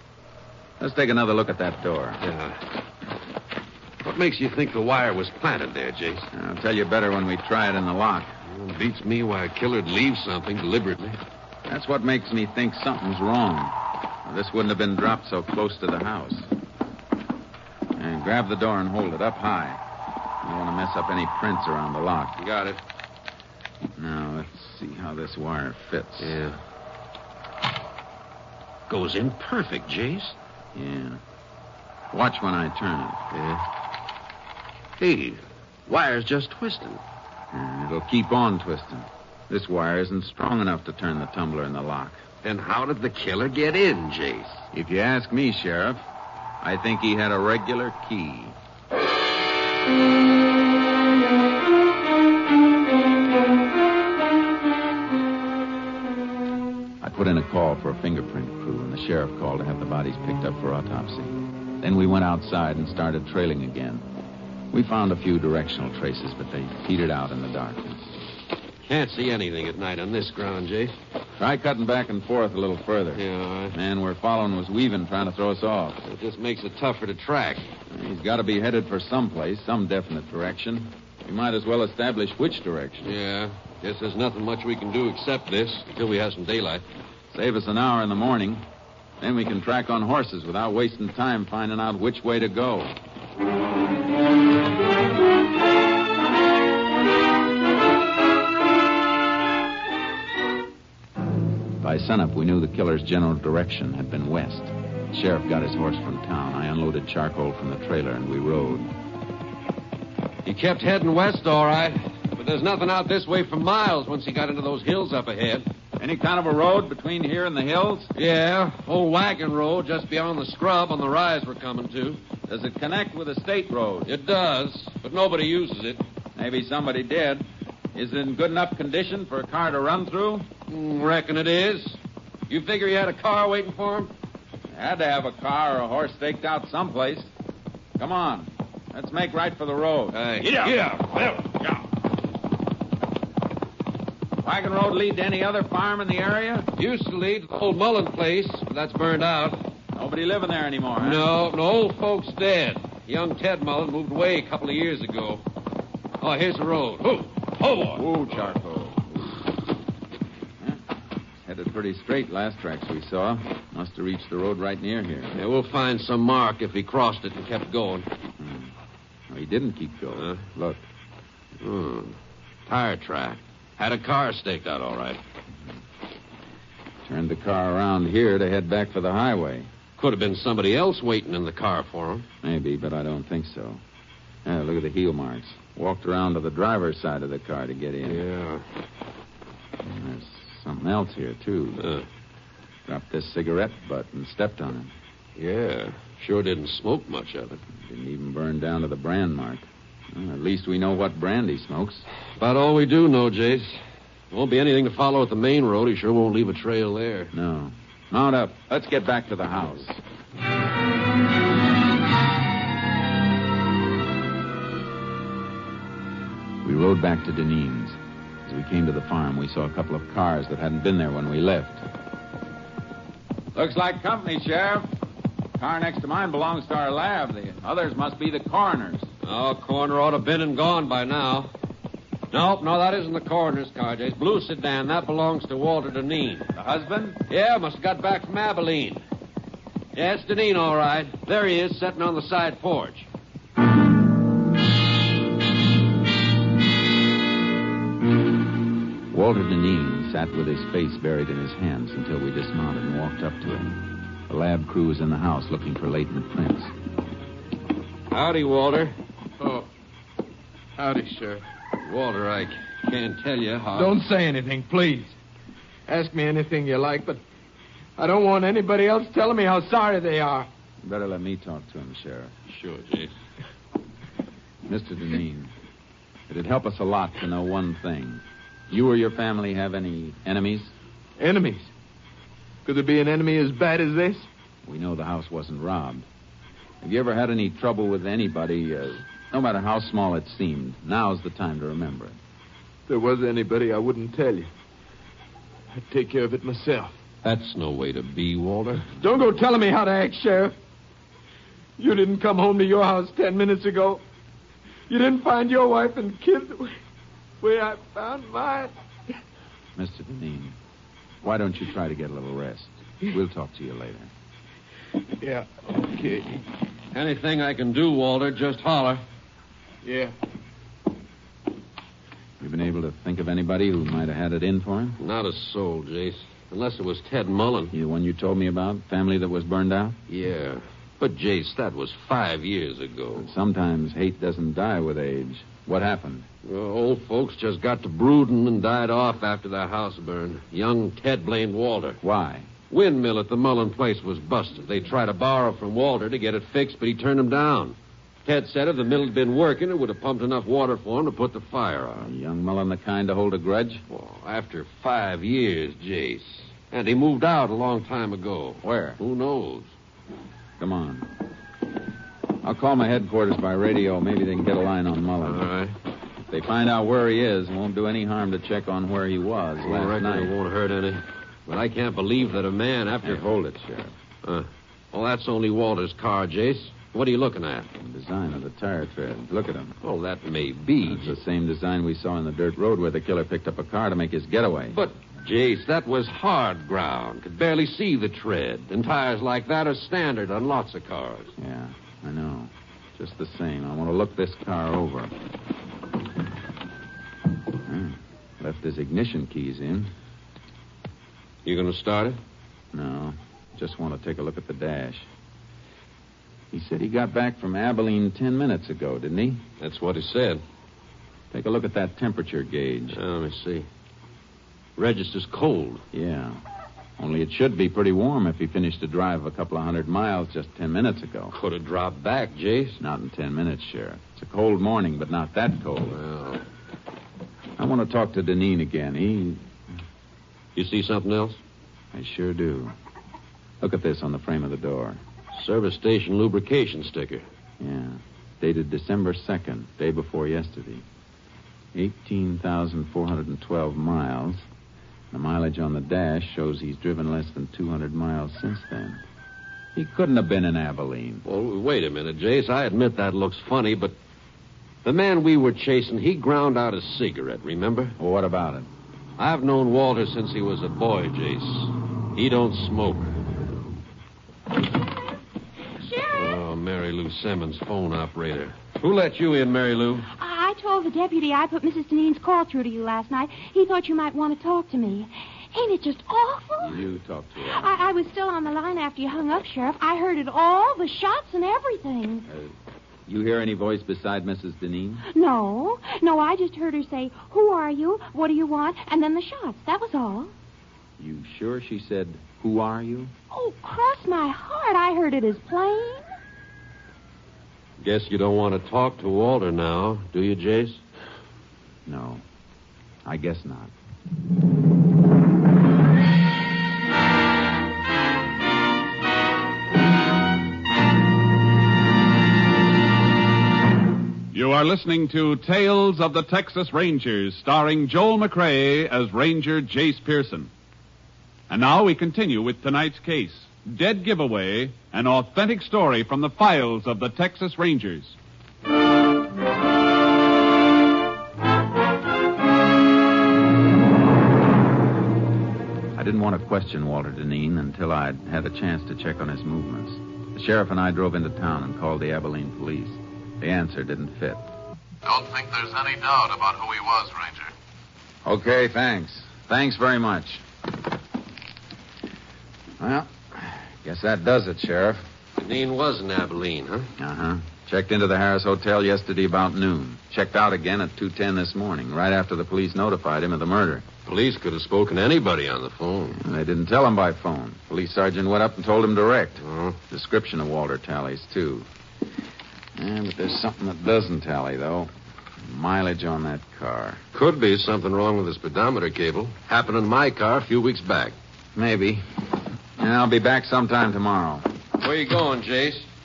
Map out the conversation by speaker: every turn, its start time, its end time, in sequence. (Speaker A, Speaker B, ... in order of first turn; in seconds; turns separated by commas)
Speaker A: 0.8-2.2, Speaker B: 2.2-2.6, Speaker B: 4.0-6.3, Speaker A: 6.3-8.3, Speaker B: 8.5-11.2, Speaker A: 11.7-16.5, Speaker A: 17.9-19.8, Speaker A: 20.4-22.3, Speaker B: 22.4-22.8, Speaker A: 24.0-26.4, Speaker B: 26.2-26.6, Speaker B: 28.9-30.3, Speaker A: 30.7-31.2, Speaker A: 32.1-33.2, Speaker B: 33.3-33.6, Speaker B: 35.0-37.0, Speaker A: 37.5-42.2, Speaker B: 42.4-44.6, Speaker A: 44.7-46.0, Speaker A: 46.6-48.5, Speaker A: 57.0-64.0, Speaker A: 64.7-68.1, Speaker B: 68.8-70.9, Speaker A: 71.4-76.0, Speaker B: 73.1-73.8, Speaker B: 76.0-77.7, Speaker A: 77.9-83.1, Speaker B: 83.0-86.8, Speaker A: 87.3-88.6, Speaker A: 89.2-92.9, Speaker A: 101.8-108.9, Speaker B: 110.4-115.7, Speaker A: 116.0-118.1, Speaker B: 118.1-122.2, Speaker A: 122.5-124.1, Speaker B: 124.0-126.0, Speaker A: 126.4-130.5, Speaker B: 130.7-132.0, Speaker B: 132.5-134.1, Speaker A: 134.7-137.3, Speaker A: 138.0-140.9, Speaker B: 140.1-141.6, Speaker A: 144.4-146.7, Speaker B: 146.8-149.6, Speaker A: 149.9-151.3, Speaker B: 151.0-155.4, Speaker B: 156.2-158.5, Speaker A: 157.8-159.3, Speaker A: 161.4-165.4, Speaker B: 165.3-168.1, Speaker A: 168.4-168.7, Speaker A: 169.3-170.8, Speaker B: 170.1-170.4, Speaker B: 171.6-172.2, Speaker B: 172.7-175.2, Speaker A: 177.1-179.7, Speaker B: 180.0-182.3, Speaker A: 182.4-183.8, Speaker A: 184.4-188.2, Speaker B: 188.0-188.6, Speaker A: 189.8-191.8, Speaker B: 191.8-192.0, Speaker A: 192.9-194.9, Speaker B: 195.4-197.6, Speaker A: 197.7-202.1, Speaker B: 202.4-203.8, Speaker B: 204.3-207.3, Speaker A: 207.3-210.0, Speaker A: 216.6-221.8, Speaker A: 223.6-224.9, Speaker A: 225.6-229.1, Speaker B: 229.2-231.5, Speaker B: 232.3-236.5, Speaker A: 236.5-237.2, Speaker B: 237.3-239.0, Speaker B: 239.9-243.1, Speaker A: 249.1-256.7, Speaker B: 258.1-258.9, Speaker C: 260.8-261.4, Speaker B: 261.8-264.0, Speaker C: 263.7-265.1, Speaker C: 265.9-267.2, Speaker C: 268.0-270.5, Speaker A: 270.8-272.3, Speaker B: 272.5-273.1, Speaker A: 274.7-275.5, Speaker A: 276.3-280.7, Speaker C: 281.2-281.7, Speaker C: 282.6-284.3, Speaker A: 284.6-286.1, Speaker A: 286.8-292.1, Speaker C: 292.9-294.5, Speaker C: 295.8-296.9, Speaker B: 297.2-298.9, Speaker C: 299.0-300.6, Speaker C: 301.8-304.0, Speaker C: 304.9-306.7, Speaker C: 307.4-308.7, Speaker A: 309.8-310.6, Speaker A: 311.2-314.1, Speaker C: 315.2-316.4, Speaker B: 316.9-319.0, Speaker C: 319.8-320.1, Speaker A: 322.4-325.0, Speaker B: 325.0-327.7, Speaker A: 327.7-330.0, Speaker B: 330.1-333.3, Speaker A: 333.1-336.3, Speaker B: 336.4-342.0, Speaker A: 342.0-342.5, Speaker B: 342.7-347.7, Speaker B: 348.3-352.1, Speaker A: 351.9-353.8, Speaker B: 353.9-359.7, Speaker A: 358.6-359.0, Speaker A: 360.6-361.1, Speaker A: 362.4-365.5, Speaker B: 365.2-365.7, Speaker A: 366.3-370.3, Speaker B: 369.6-373.3, Speaker A: 373.0-373.9, Speaker B: 374.2-377.7, Speaker A: 377.8-379.7, Speaker B: 379.8-381.2, Speaker A: 380.8-384.8, Speaker B: 384.7-391.3, Speaker A: 391.4-395.1, Speaker A: 397.6-399.9, Speaker B: 401.4-402.2, Speaker A: 402.7-405.1, Speaker A: 406.5-409.4, Speaker B: 409.6-410.4, Speaker A: 411.3-413.0, Speaker B: 412.9-413.6, Speaker B: 414.8-415.8, Speaker A: 415.9-416.4, Speaker A: 417.0-421.3, Speaker B: 421.3-422.8, Speaker A: 422.8-426.0, Speaker B: 425.9-426.4, Speaker A: 427.6-429.4, Speaker B: 430.6-431.4, Speaker A: 431.9-432.7, Speaker A: 433.6-435.0, Speaker B: 435.4-437.2, Speaker A: 437.6-440.8, Speaker A: 441.7-444.4, Speaker A: 445.1-449.0, Speaker A: 449.7-451.2, Speaker B: 451.2-453.9, Speaker B: 454.8-457.9, Speaker A: 458.0-458.7, Speaker B: 459.2-463.1, Speaker B: 466.1-470.1, Speaker D: 470.1-476.6, Speaker A: 476.6-477.8, Speaker D: 477.5-482.2, Speaker A: 483.1-485.1, Speaker D: 485.1-490.3, Speaker A: 491.0-493.1, Speaker D: 493.3-496.0, Speaker B: 497.8-500.8, Speaker A: 501.9-502.2, Speaker A: 503.1-503.7, Speaker E: 514.3-520.5, Speaker E: 521.5-528.1, Speaker A: 535.9-544.4, Speaker B: 545.0-547.5, Speaker A: 548.2-550.4, Speaker A: 552.8-555.0, Speaker B: 555.4-556.9, Speaker A: 557.0-563.9, Speaker B: 564.0-566.2, Speaker A: 566.2-571.7, Speaker B: 569.4-569.8, Speaker A: 572.8-574.9, Speaker A: 575.4-577.0, Speaker B: 577.1-581.1, Speaker A: 581.5-582.0, Speaker A: 582.8-584.5, Speaker B: 584.8-585.9